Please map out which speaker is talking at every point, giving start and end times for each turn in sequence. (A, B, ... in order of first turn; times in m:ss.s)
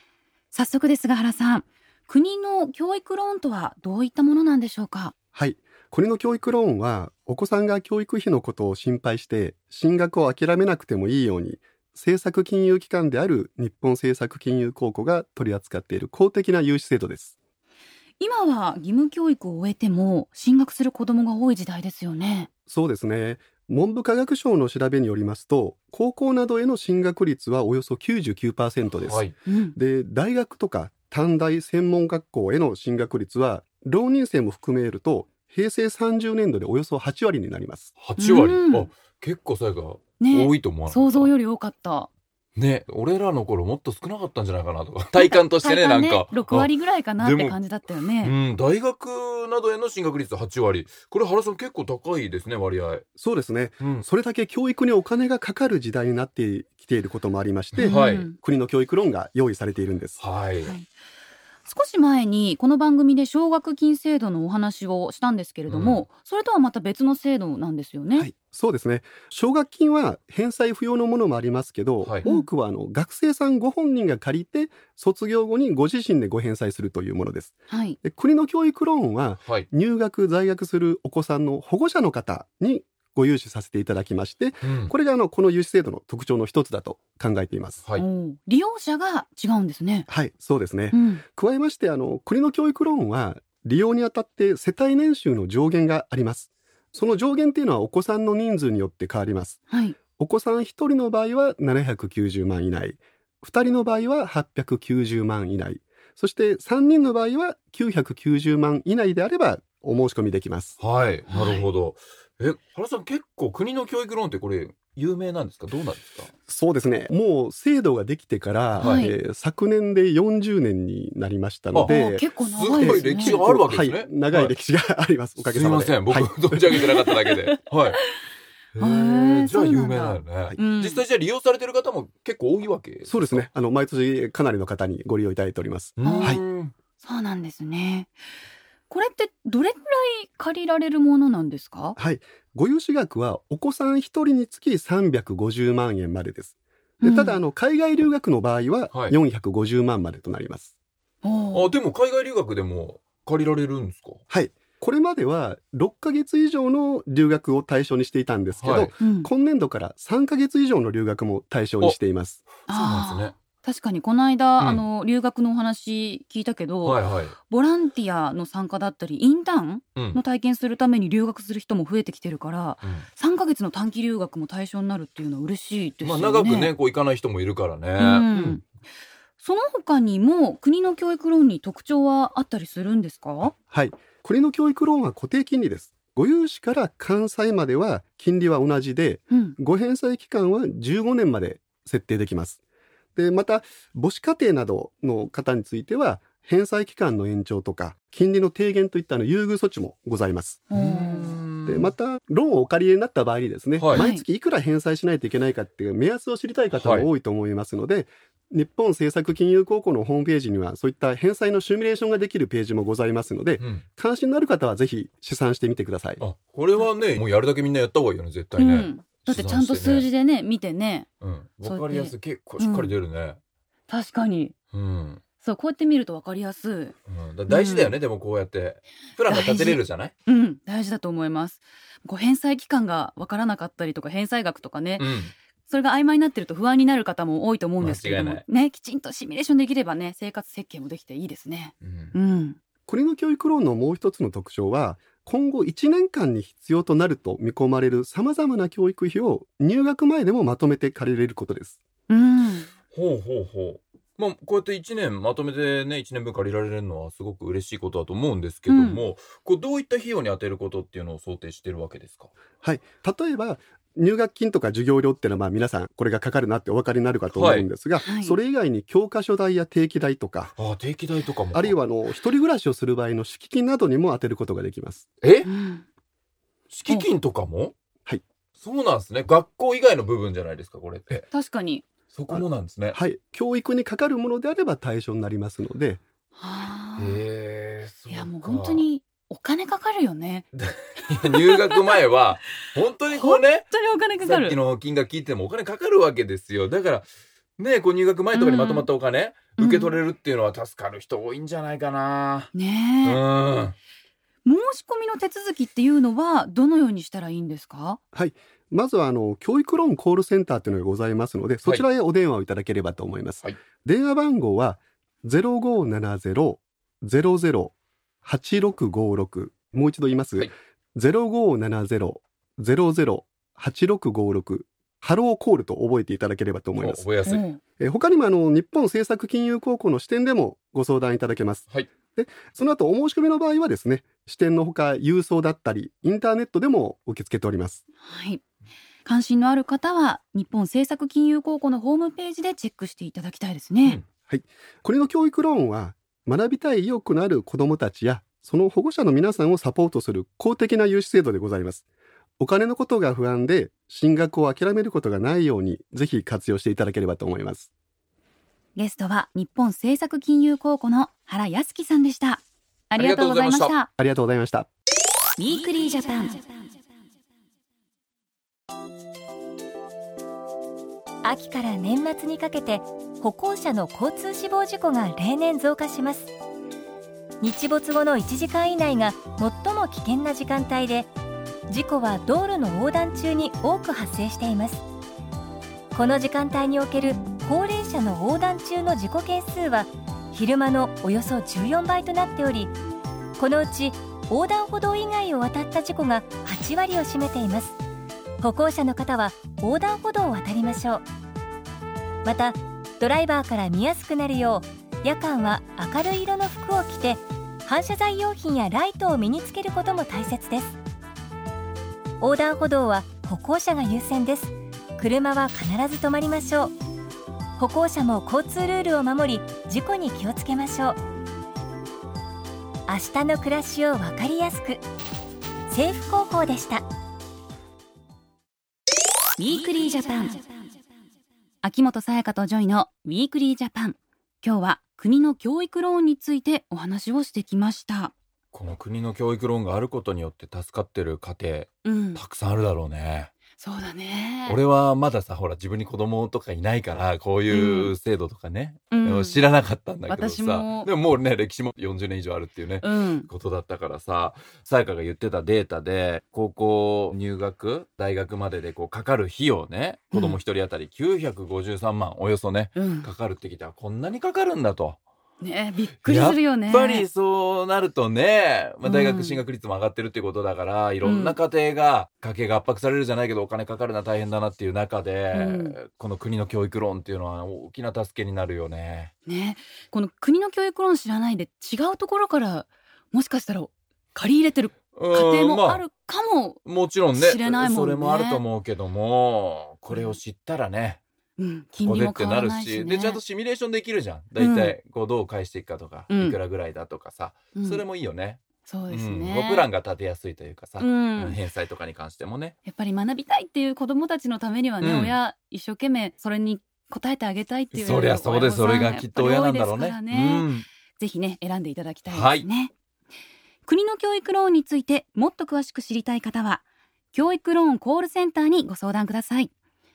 0:00.5-0:05.1 A
0:05.4-0:17.4 B
0:18.2-0:22.5 A
0:22.7-0:37.9 B
0:28.9-0:29.4 C
0:29.4-0:29.8 A
0:38.0-0:41.3 C
0:38.2-0:38.9 A
0:40.2-0:42.1 A
0:42.6-0:47.6 C
0:45.2-0:48.4 A
0:48.2-0:53.0 C
0:53.2-1:00.2 B
0:53.8-0:54.1 C
0:57.7-0:58.3 C
0:57.8-0:58.4 A
1:00.2-1:00.7 C
1:01.7-1:08.3 A
1:05.7-1:06.0 C
1:08.2-1:27.8 B
1:17.7-1:18.0 A
1:24.6-1:24.9 C
1:28.0-1:30.1 A
1:30.1-1:39.6 B
1:30.9-1:31.2 A
1:39.7-1:40.0 A
1:40.2-1:50.8 B
1:50.8-1:56.3 C
1:51.3-1:51.7 A
1:56.5-2:02.3 B
1:58.8-1:59.1 C
1:58.8-1:59.1 A
2:01.7-2:02.0 C
2:01.8-2:03.4 A
2:02.5-2:04.5 C
2:02.8-2:06.9 B
2:05.4-2:08.0 C
2:06.7-2:08.0 A
2:08.8-2:13.5 C
2:08.8-2:11.0 A
2:13.1-2:16.4 B
2:16.0-2:16.7 C
2:16.0-2:16.4 A
2:17.0-2:18.1 A
2:18.9-2:22.0 A
2:22.0-2:30.7 B
2:27.0-2:27.4 A
2:31.2-2:31.7 A
2:31.5-2:34.2 C
2:34.3-2:42.4 B
2:38.6-2:38.9 C
2:39.0-2:39.3 A
2:42.6-2:43.3 C
2:42.7-2:56.7 A
2:46.8-2:47.3 C
2:56.0-2:58.6 C
2:58.0-2:58.6 A
2:59.4-3:03.5 A
3:03.7-3:12.6 B
3:09.3-3:09.6 A
3:13.2-3:20.7 B
3:20.7-3:21.4 A
3:20.7-3:21.9 C
3:21.6-3:36.2 B
3:23.9-3:24.2 A
3:26.7-3:27.1 C
3:33.6-3:33.8 C
3:36.2-3:40.1 C
3:38.6-3:41.1 A
3:41.2-3:43.4 C
3:41.6-3:43.0 A
3:43.9-3:44.5 A
3:44.7-3:45.2 C
3:45.4-3:46.9 A
3:47.1-3:50.1 C
3:47.5-3:48.0 A
3:49.3-3:55.1 A
3:55.0-3:55.3 C
3:55.7-4:02.6 A
3:57.8-3:58.4 C
4:01.8-4:02.1 C
4:02.9-4:11.8 B
4:12.1-4:12.7 A
4:12.9-4:22.3 C
4:18.7-4:19.0 A
4:22.6-4:30.5 B
4:27.3-4:27.7 C
4:28.0-4:28.4 A
4:30.6-4:31.8 C
4:31.5-4:35.1 B
4:35.2-4:35.5 C
4:35.4-4:35.8 A
4:36.7-4:37.7 C
4:38.6-4:41.3 C
4:41.3-4:41.8 A
4:42.1-4:43.0 C
4:42.3-4:46.0 B
4:46.4-4:47.2 A
4:47.0-4:48.8 C
4:48.1-4:50.4 A
4:50.5-4:57.1 C
4:51.3-4:51.8 A
4:53.1-4:54.6 A
4:57.6-5:02.5 C
4:58.3-4:58.9 A
4:59.6-5:00.0 A
5:02.5-5:03.2 A
5:03.0-5:03.8 C
5:04.4-5:08.0 A
5:08.1-5:27.1 B
5:26.8-5:27.4 C
5:27.2-5:27.6 A
5:27.8-5:37.8 B
5:38.0-5:38.4 A
5:39.0-5:44.0 A
5:44.3-5:51.8 B
5:52.4-5:57.7 B
5:58.8-6:03.9 A
6:03.0-6:03.7 C
6:04.0-6:04.7 B
6:05.4-6:06.5 A
6:11.2-6:16.3 D
6:17.4-6:21.1 D
6:21.7-6:24.8 D
6:25.9-6:32.7 D
6:33.4-6:37.8 D
6:38.4-6:41.1 D
6:42.2-6:50.8 D
6:52.2-6:56.8 D
6:57.6-7:01.0 D
7:02.9-7:04.8 D
7:05.7-7:06.8 D
7:09.4-7:10.4 A
7:11.6-7:18.1 A
7:18.5-7:23.3 C
7:21.8-7:22.2 A
7:23.6-7:24.6 A
7:24.4-7:45.0 C
7:27.5-7:27.9 A
7:28.9-7:29.4 A
7:30.1-7:30.9 A
7:32.8-7:33.3 A
7:40.1-7:40.4 A
7:42.8-7:43.1 A
7:45.4-7:47.1 A
7:46.1-7:59.1 C
7:48.8-7:49.4 A
7:51.0-7:51.4 A
7:55.3-7:55.8 A
7:59.3-8:06.6 A
8:04.9-8:05.8 C
8:06.6-8:11.0 C
8:07.1-8:08.4 A
8:09.9-8:10.2 A
8:11.4-8:13.2 A
8:11.8-8:22.6 C
8:14.4-8:14.7 A
8:16.1-8:16.4 A
8:17.6-8:17.8 A
8:18.6-8:19.7 A
8:20.8-8:21.4 A
8:22.7-8:32.7 A
8:24.8-8:25.2 C
8:27.7-8:30.6 C
8:32.1-8:32.4 C
8:33.6-8:39.5 A